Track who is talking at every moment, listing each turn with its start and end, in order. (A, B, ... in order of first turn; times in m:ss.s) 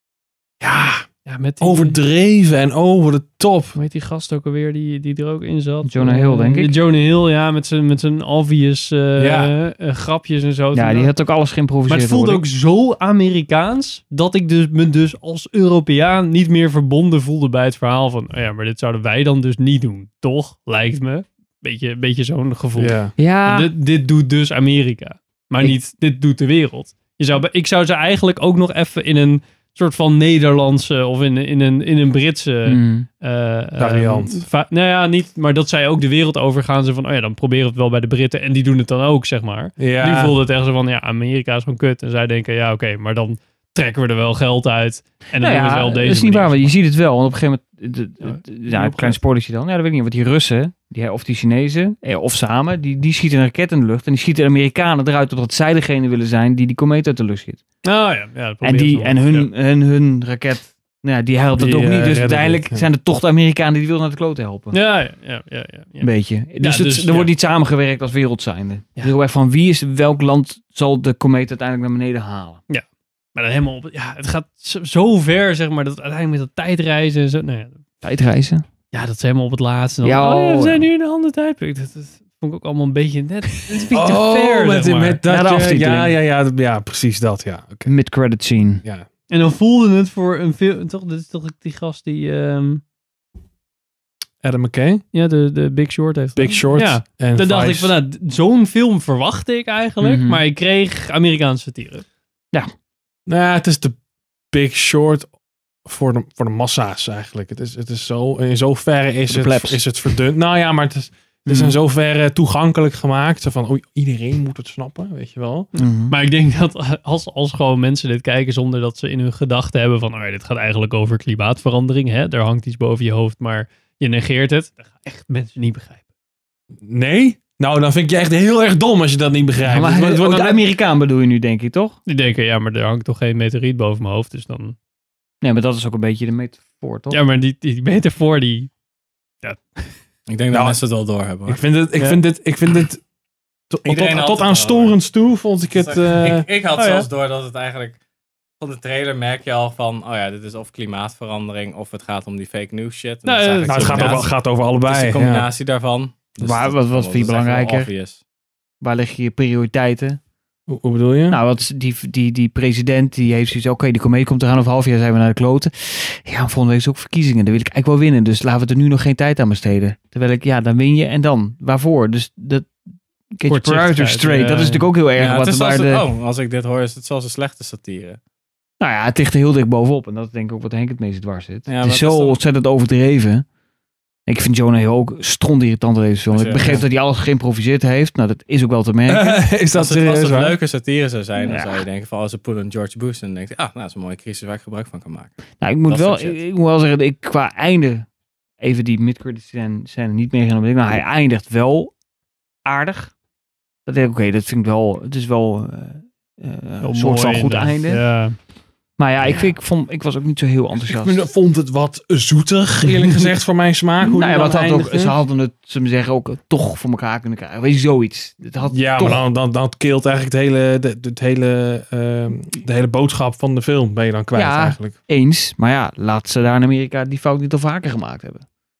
0:00.6-0:01.0 A
0:01.2-0:02.0 B
0:01.6-0:03.7 A
0:03.7-0:11.1 B
0:05.8-0:06.8 C
0:09.2-0:09.5 A
0:10.7-0:12.4 C
0:11.9-0:46.7 B
0:22.8-0:23.1 A
0:23.2-0:23.7 C
0:32.6-0:33.1 C
0:33.8-0:34.4 A
0:39.8-0:40.4 A
0:45.4-0:57.6 C
0:48.2-0:49.2 B
0:57.8-0:59.5 B
0:58.6-1:04.8 C
1:01.6-1:02.8 A
1:04.7-1:07.3 B
1:06.0-1:12.6 C
1:13.4-1:17.8 B
1:18.0-1:18.6 C
1:18.9-1:25.2 B
1:20.0-1:20.8 C
1:23.9-1:27.9 A
1:25.2-1:26.2 C
1:27.8-1:28.8 C
1:29.3-1:32.8 B
1:34.4-1:35.0 A
1:35.1-1:42.0 B
1:36.4-1:37.9 A
1:40.0-1:40.4 C
1:43.3-1:44.0 A
1:44.5-1:45.3 A
1:45.8-1:55.7 A
1:49.3-1:49.8 C
1:51.5-1:51.8 C
1:55.8-1:56.1 C
1:56.1-2:06.0 B
2:06.8-2:10.6 A
2:09.6-2:12.0 C
2:12.1-2:14.8 B
2:15.4-2:17.2 C
2:17.1-2:18.7 B
2:19.4-2:19.9 B
2:20.3-2:21.6 D
2:20.5-2:20.8 A
2:21.4-2:23.0 A
2:23.7-2:26.5 A
2:23.8-2:25.0 D
2:25.7-2:28.0 D
2:26.7-2:27.1 B
2:28.6-2:38.2 D
2:33.2-2:34.3 B
2:33.7-2:35.4 A
2:36.4-2:37.9 C
2:38.8-2:40.2 C
2:40.7-2:41.4 A
2:41.3-2:52.8 C
2:53.3-2:56.0 C
2:53.5-2:54.9 B
2:55.2-2:58.2 D
2:58.8-3:03.4 C
3:01.7-3:02.4 D
3:04.3-3:09.4 C
3:06.3-3:06.8 D
3:09.1-3:10.6 A
3:09.7-3:15.3 D
3:11.4-3:11.8 C
3:15.6-3:18.1 C
3:15.9-3:16.4 D
3:18.6-3:21.9 C
3:22.6-3:23.1 C
3:23.8-3:28.0 C
3:26.8-3:28.4 B
3:29.0-3:31.2 C
3:30.8-3:35.2 A
3:34.0-3:39.2 C
3:38.7-3:44.9 A
3:44.3-3:48.4 C